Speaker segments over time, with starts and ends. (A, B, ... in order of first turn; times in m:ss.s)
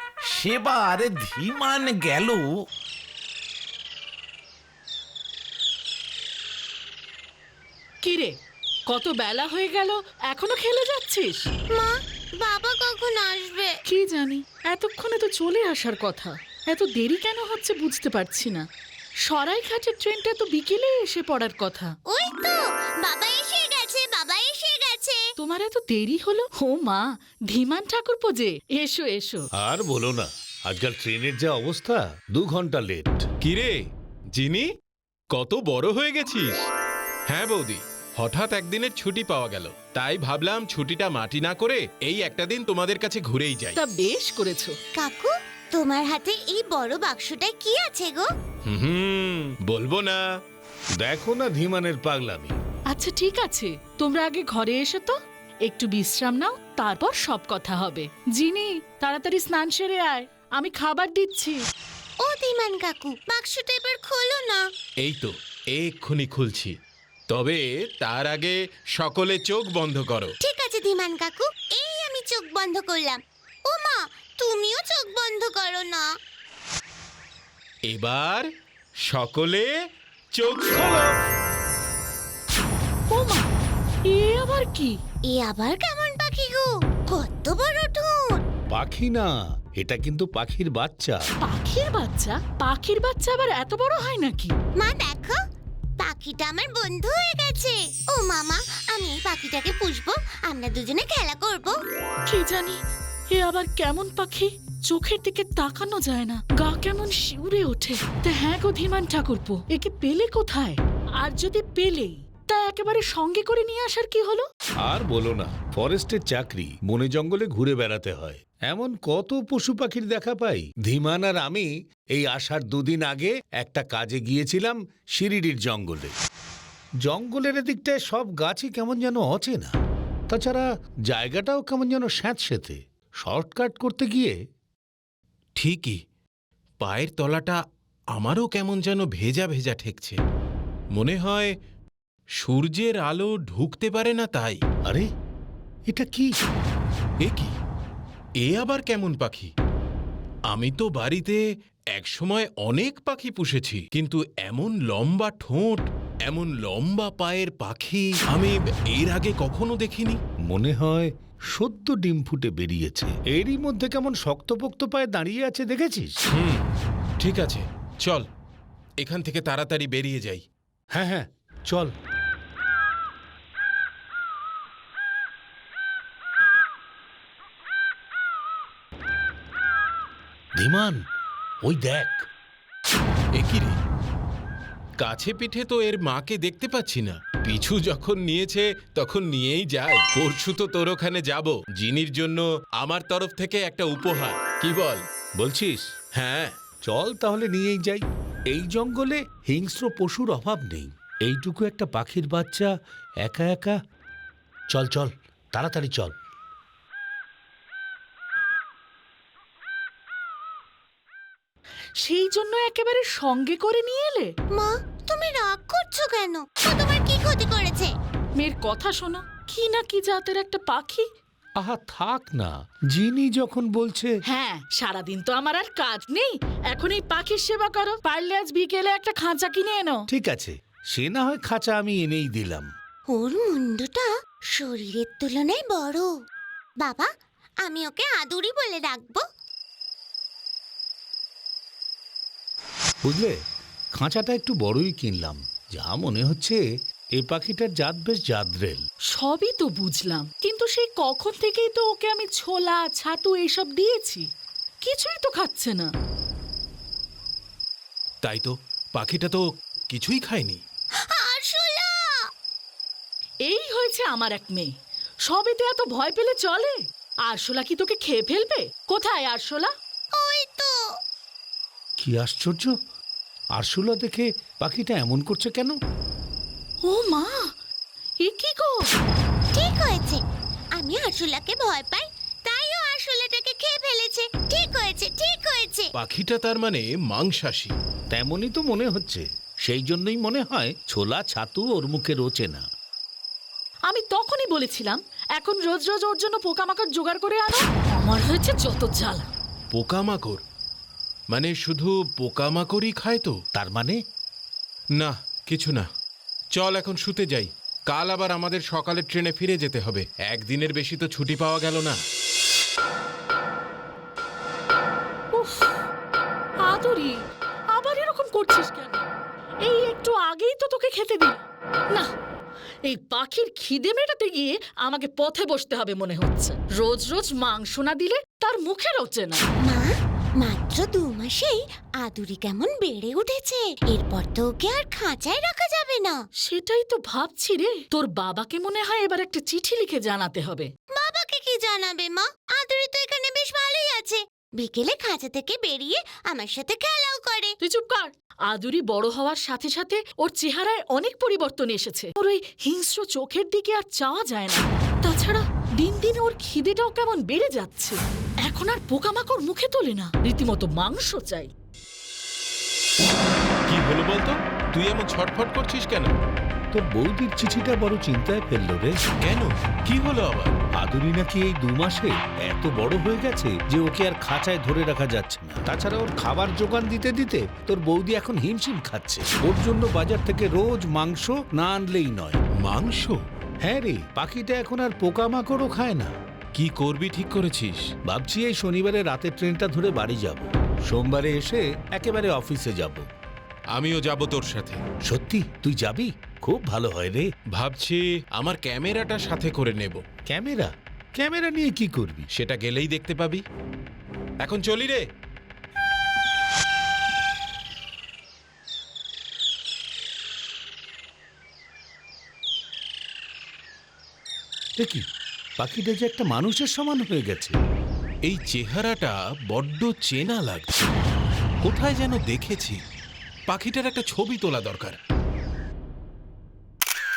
0:00.3-0:02.4 A
0:08.0-0:08.3 B
0:08.9-0:11.5 B
0:11.7-0:13.8 C
0:13.9-0:18.6 B
0:19.3-0:21.9 B
0:22.1-0:25.3 C
0:25.4-0:29.5 B
0:29.6-0:33.2 D
0:33.4-0:33.8 E
0:34.4-0:34.7 E
0:35.3-0:36.6 E
0:37.3-0:43.8 E
0:43.8-0:44.8 B
0:45.0-0:48.3 C
0:48.7-0:50.2 E
0:51.0-0:52.6 D
0:52.9-1:01.6 B
1:02.2-1:04.7 C
1:05.0-1:06.8 E
1:07.3-1:10.3 E
1:10.4-1:16.1 C
1:17.9-1:18.5 E
1:19.1-1:19.7 E
1:20.4-1:21.1 E
1:23.1-1:23.5 B
1:24.1-1:25.0 B
1:25.3-1:28.4 C
1:28.7-1:31.2 D
1:31.4-1:34.5 B
1:34.8-1:35.4 C
1:36.0-1:41.8 C
1:42.3-1:42.8 B
1:43.3-1:54.5 B
1:54.8-2:06.1 D
2:07.0-2:09.7 D
2:10.3-2:14.4 D
2:15.6-2:16.0 E
2:16.8-2:17.6 E
2:18.1-2:20.2 E
2:21.0-2:21.5 E
2:22.4-2:24.6 E
2:25.9-2:26.3 D
2:27.2-2:27.5 E
2:28.4-2:29.5 E
2:30.5-2:31.4 E
2:31.9-2:40.2 E
2:40.4-2:46.1 D
2:46.3-2:46.7 E
2:47.2-2:48.3 E
2:49.0-2:50.4 E
2:51.0-2:51.9 D
3:00.6-3:01.0 D
3:01.6-3:02.3 D
3:03.4-3:03.8 E
3:05.0-3:15.0 E
3:15.4-3:15.8 D
3:16.2-3:16.6 E
3:16.8-3:22.7 D
3:23.2-3:23.8 D
3:24.7-3:26.1 D
3:32.0-3:34.3 B
3:34.5-3:37.9 C
3:38.4-3:41.1 B
3:41.6-3:44.1 D
3:44.3-3:50.0 B
3:50.1-3:52.7 D
3:53.1-3:56.1 C
3:56.8-3:57.1 C
3:57.6-3:59.2 C
4:03.0-4:03.4 D
4:04.0-4:06.6 D
4:07.2-4:08.8 D
4:09.1-4:14.3 B
4:14.8-4:15.9 B
4:18.2-4:20.6 E
4:21.1-4:22.2 C
4:23.4-4:24.7 B
4:25.3-4:29.7 B
4:30.2-4:30.8 C
4:32.0-4:32.7 D
4:33.6-4:35.8 D
4:36.8-4:37.5 B
4:38.2-4:38.9 B
4:39.5-4:40.2 C
4:40.8-4:45.9 C
4:46.0-4:47.7 E
4:48.1-4:52.6 D
4:53.9-4:59.3 B
4:59.7-5:00.4 E
5:01.3-5:03.4 E
5:03.6-5:04.0 D
5:05.0-5:05.9 E
5:06.6-5:12.0 E
5:15.3-5:15.8 B
5:16.6-5:17.2 B
5:17.7-5:19.1 B
5:19.6-5:21.4 B
5:22.9-5:29.4 B
5:29.6-5:36.2 C
5:36.4-5:40.7 B
5:40.9-5:47.6 C
5:47.6-6:01.5 B
6:03.7-6:06.1 E
6:06.7-6:09.0 D
6:09.2-6:10.6 E
6:10.8-6:22.4 D
6:22.6-6:23.2 E
6:23.6-6:26.1 D
6:26.6-6:27.9 E
6:28.1-6:33.1 D
6:33.7-6:34.8 E
6:35.1-6:37.3 D
6:37.6-6:40.0 E
6:40.3-6:42.3 D
6:42.4-6:43.4 E
6:44.4-6:45.0 E
6:54.8-6:55.0 D
6:55.6-6:57.6 D
6:58.2-7:00.8 E
7:01.6-7:02.8 E
7:03.5-7:05.0 E